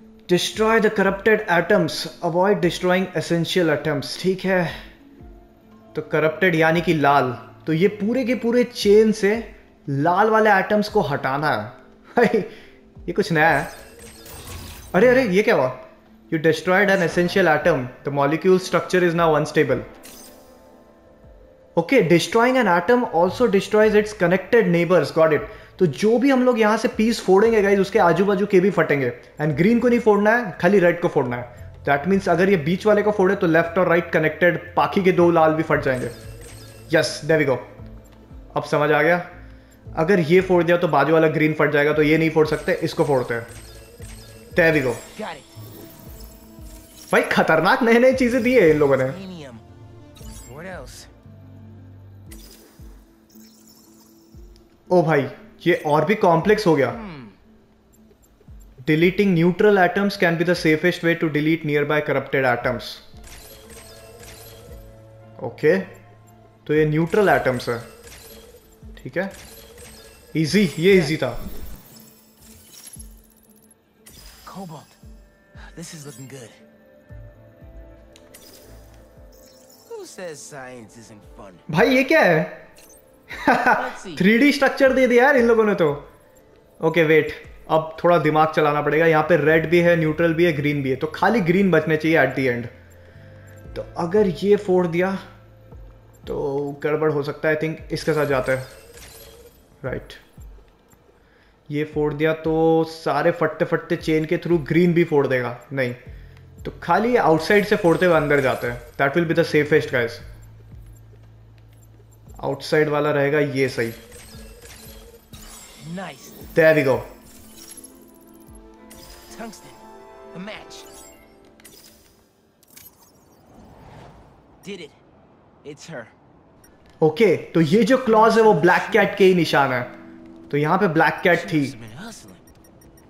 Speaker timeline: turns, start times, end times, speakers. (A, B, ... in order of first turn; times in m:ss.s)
0:00.3-0:04.8 A
0:05.9-0:12.5 A
0:13.0-0:13.7 A
0:14.9-0:15.8 A
0:16.3-0:19.8 A
0:21.8-0:36.2 A
0:36.9-0:37.6 A
0:38.5-0:39.3 A
0:39.9-0:43.5 A
0:44.5-0:45.0 A
0:45.1-0:45.5 B
0:47.1-0:49.2 A
0:48.8-0:49.6 B
0:50.4-0:51.1 B
0:54.9-0:57.0 A
0:56.8-0:57.4 B
0:58.8-1:03.0 A
1:05.4-1:05.9 A
1:06.6-1:07.8 A
1:09.0-1:09.3 A
1:10.3-1:11.4 A
1:10.8-1:11.2 B
1:14.4-1:15.0 B
1:15.6-1:16.6 B
1:19.9-1:21.6 B
1:21.7-1:22.6 A
1:23.3-1:26.0 A
1:23.7-1:24.2 B
1:26.8-1:32.7 A
1:33.7-1:35.2 A
1:36.2-1:38.7 A
1:39.8-1:40.2 A
1:41.7-1:46.0 A
1:46.6-1:50.2 A
1:52.4-1:54.0 A
1:55.8-1:56.4 B
1:56.5-1:57.1 A
1:59.3-2:00.9 B
2:04.6-2:05.0 B
2:05.6-2:06.1 B
2:07.0-2:09.9 A
2:07.7-2:09.3 B
2:10.5-2:11.8 A
2:11.3-2:12.4 B